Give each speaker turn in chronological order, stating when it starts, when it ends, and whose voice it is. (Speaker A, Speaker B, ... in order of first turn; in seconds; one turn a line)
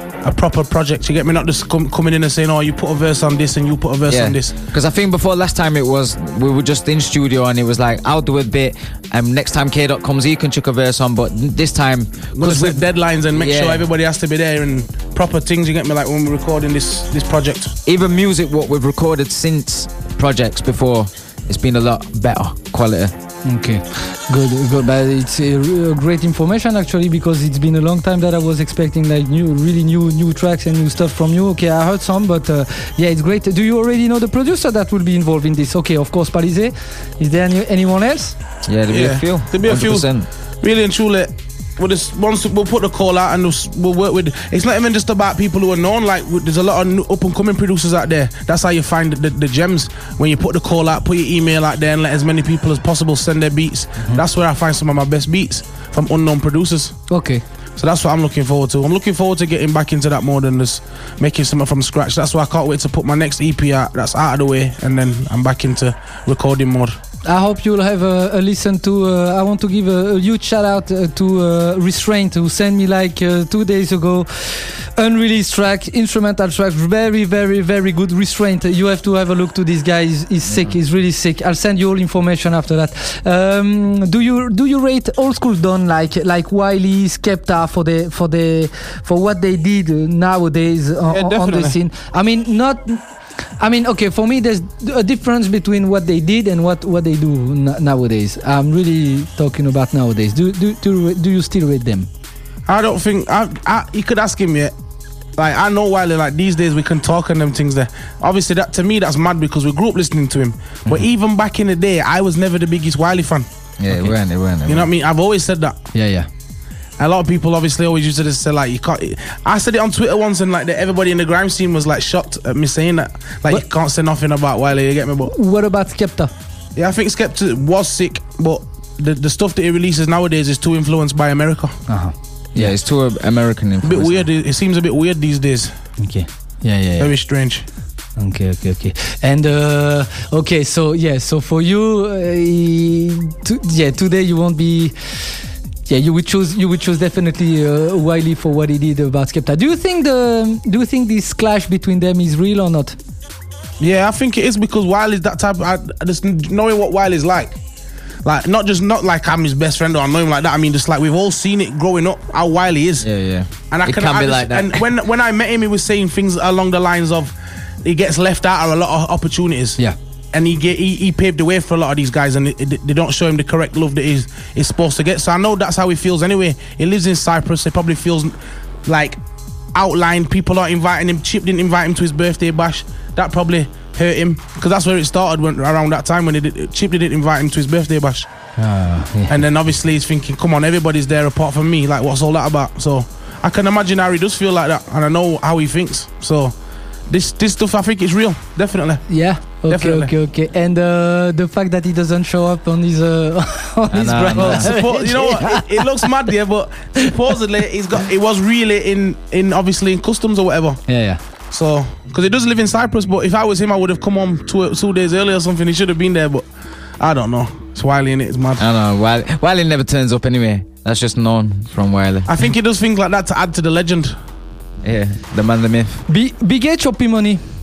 Speaker A: 0.2-4.5
Speaker B: 4.1-13.8
Speaker A: 12.3-17.8
Speaker B: 17.8-23.1
Speaker C: 23.4-38.3
Speaker B: 38.6-40.3
Speaker A: 38.9-40.1
Speaker A: 40.6-57.0
Speaker C: 57.1-57.4
Speaker A: 57.8-67.0
Speaker C: 67.2-93.0
Speaker B: 80.5-80.7
Speaker A: 91.1-91.7
Speaker C: 93.6-102.1
Speaker A: 102.7-104.7
Speaker A: 105.4-113.5
Speaker B: 113.8-114.9
Speaker C: 113.9-114.1
Speaker A: 114.7-115.8
Speaker C: 115.9-116.3
Speaker A: 117.0-125.3
Speaker C: 125.2-126.3
Speaker A: 126.8-131.8
Speaker C: 131.9-132.8
Speaker B: 132.5-134.3
Speaker A: 133.8-135.7
Speaker C: 136.0-137.1
Speaker A: 137.0-137.6
Speaker C: 138.2-153.0
Speaker A: 153.8-157.6
Speaker A: 158.2-163.1
Speaker B: 163.0-164.8
Speaker A: 163.7-169.8
Speaker A: 170.3-179.2
Speaker A: 179.7-188.3
Speaker C: 188.6-189.4
Speaker A: 189.3-196.5
Speaker A: 197.1-199.1
Speaker C: 199.1-205.8
Speaker A: 199.7-200.1
Speaker B: 203.9-204.7
Speaker A: 204.4-210.8
Speaker C: 210.9-211.2
Speaker A: 211.5-216.4
Speaker A: 217.0-218.7
Speaker B: 218.6-222.3
Speaker A: 222.2-224.1
Speaker B: 224.8-226.1
Speaker C: 226.1-227.4